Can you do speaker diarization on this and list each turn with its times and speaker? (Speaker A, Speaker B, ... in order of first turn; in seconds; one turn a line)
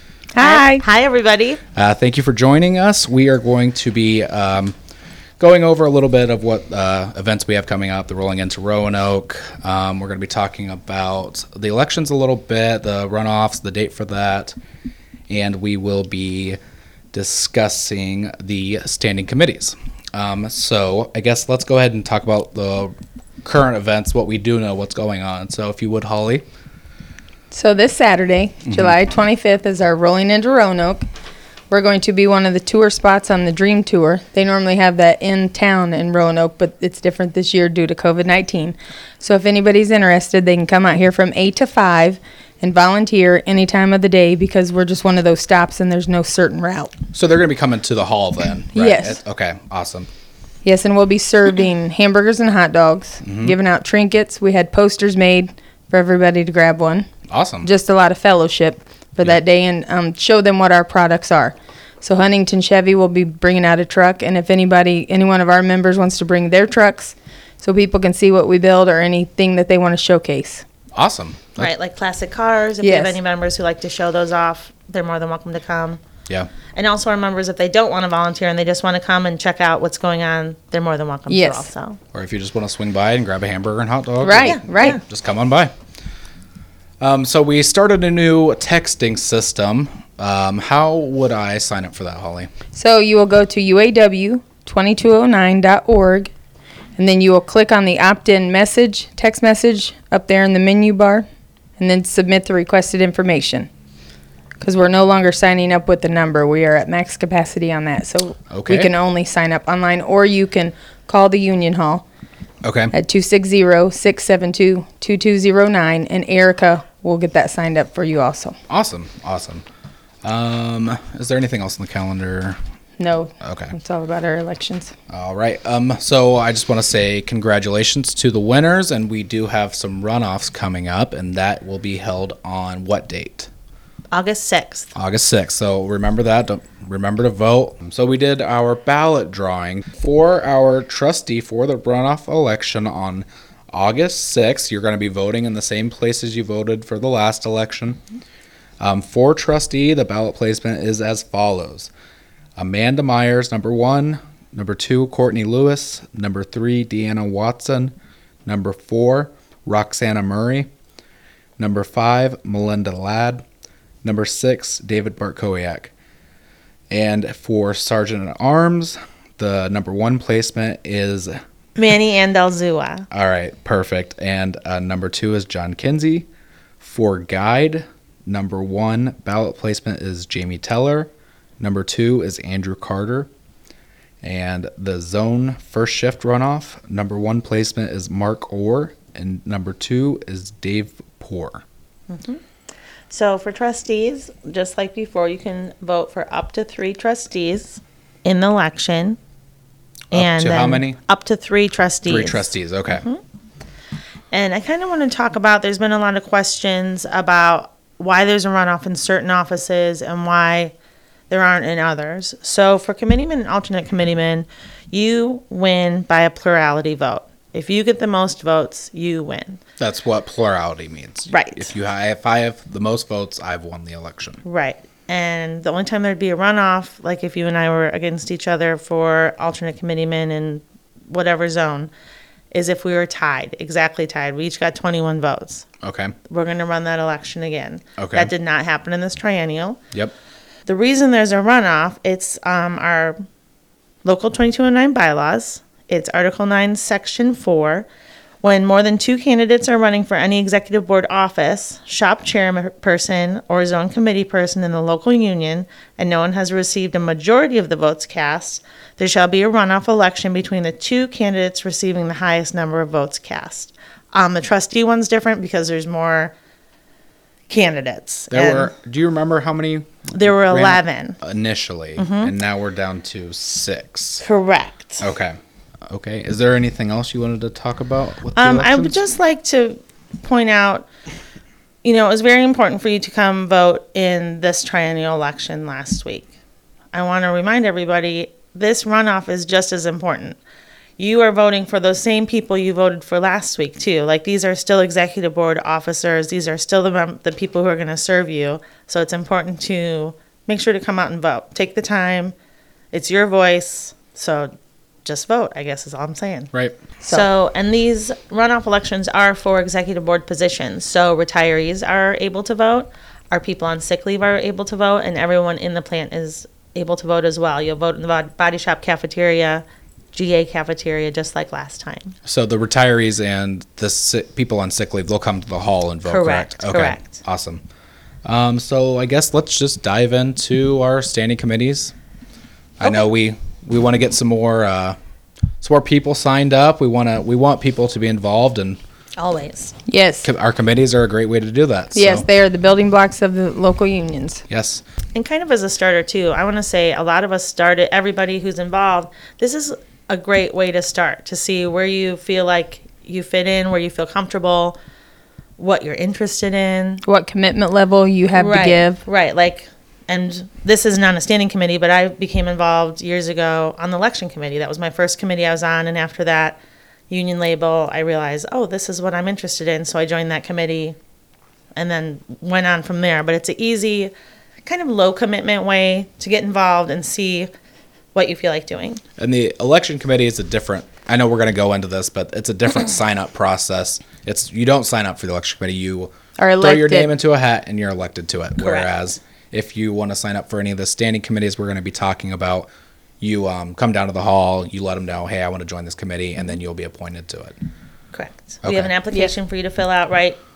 Speaker A: 0.3-0.8
Speaker B: 0.4-1.6
Speaker C: 1.7-4.8
Speaker C: 5.4-14.6
Speaker C: 15.3-16.6
Speaker C: 17.1-26.4
Speaker A: 27.5-31.1
Speaker A: 31.7-46.9
Speaker C: 47.1-50.1
Speaker A: 48.7-49.2
Speaker A: 50.6-57.1
Speaker C: 53.2-53.6
Speaker C: 57.3-57.7
Speaker A: 57.6-70.7
Speaker C: 70.9-71.7
Speaker B: 71.6-76.0
Speaker A: 72.8-73.2
Speaker B: 76.7-82.0
Speaker A: 81.3-81.7
Speaker C: 82.1-85.7
Speaker A: 84.2-85.0
Speaker B: 84.4-85.0
Speaker C: 87.0-92.5
Speaker A: 92.7-96.3
Speaker A: 97.0-101.3
Speaker A: 101.8-103.7
Speaker A: 104.6-112.0
Speaker C: 108.5-108.9
Speaker C: 112.6-112.9
Speaker A: 112.9-118.6
Speaker C: 118.7-119.6
Speaker C: 120.2-122.6
Speaker A: 123.0-124.9
Speaker C: 123.4-123.7
Speaker C: 125.1-133.5
Speaker B: 134.1-134.9
Speaker C: 134.9-148.0
Speaker C: 148.8-151.9
Speaker C: 152.6-157.9
Speaker C: 158.5-160.7
Speaker C: 161.6-163.4
Speaker C: 164.0-165.9
Speaker C: 166.9-171.4
Speaker B: 171.8-173.1
Speaker C: 173.1-176.3
Speaker C: 176.8-183.3
Speaker C: 184.2-191.6
Speaker B: 192.1-192.4
Speaker B: 193.1-199.2
Speaker C: 200.1-201.0
Speaker B: 200.1-203.2
Speaker C: 202.1-203.1
Speaker B: 204.3-210.7
Speaker B: 211.3-219.6
Speaker C: 219.8-224.4
Speaker B: 221.3-221.7
Speaker B: 224.4-231.9
Speaker B: 232.5-235.7
Speaker C: 235.8-236.2
Speaker B: 236.3-239.8
Speaker C: 238.0-238.3
Speaker B: 240.7-243.2
Speaker B: 244.0-247.9
Speaker B: 248.4-266.3
Speaker B: 267.5-268.7
Speaker C: 268.3-274.2
Speaker B: 270.1-271.2
Speaker B: 272.0-272.3
Speaker B: 274.2-275.0
Speaker C: 275.0-279.0
Speaker B: 278.4-280.9
Speaker B: 281.8-286.3
Speaker B: 286.9-290.4
Speaker B: 291.0-302.4
Speaker B: 302.9-304.5
Speaker B: 305.1-306.5
Speaker C: 306.5-306.8
Speaker B: 307.0-322.1
Speaker C: 322.2-327.6
Speaker B: 326.1-327.2
Speaker C: 328.2-331.9
Speaker C: 332.8-335.0
Speaker C: 335.6-338.8
Speaker B: 339.2-339.8
Speaker A: 339.9-340.3
Speaker C: 340.2-342.2
Speaker A: 341.9-344.4
Speaker C: 344.5-344.8
Speaker B: 345.1-354.8
Speaker B: 355.6-357.0
Speaker A: 357.0-359.0
Speaker B: 358.3-371.0
Speaker B: 371.8-374.1
Speaker B: 374.6-377.5
Speaker B: 378.1-379.0
Speaker C: 379.2-392.7
Speaker A: 386.4-387.1
Speaker B: 388.6-388.9
Speaker C: 393.2-397.6
Speaker B: 398.1-400.4
Speaker C: 398.6-398.9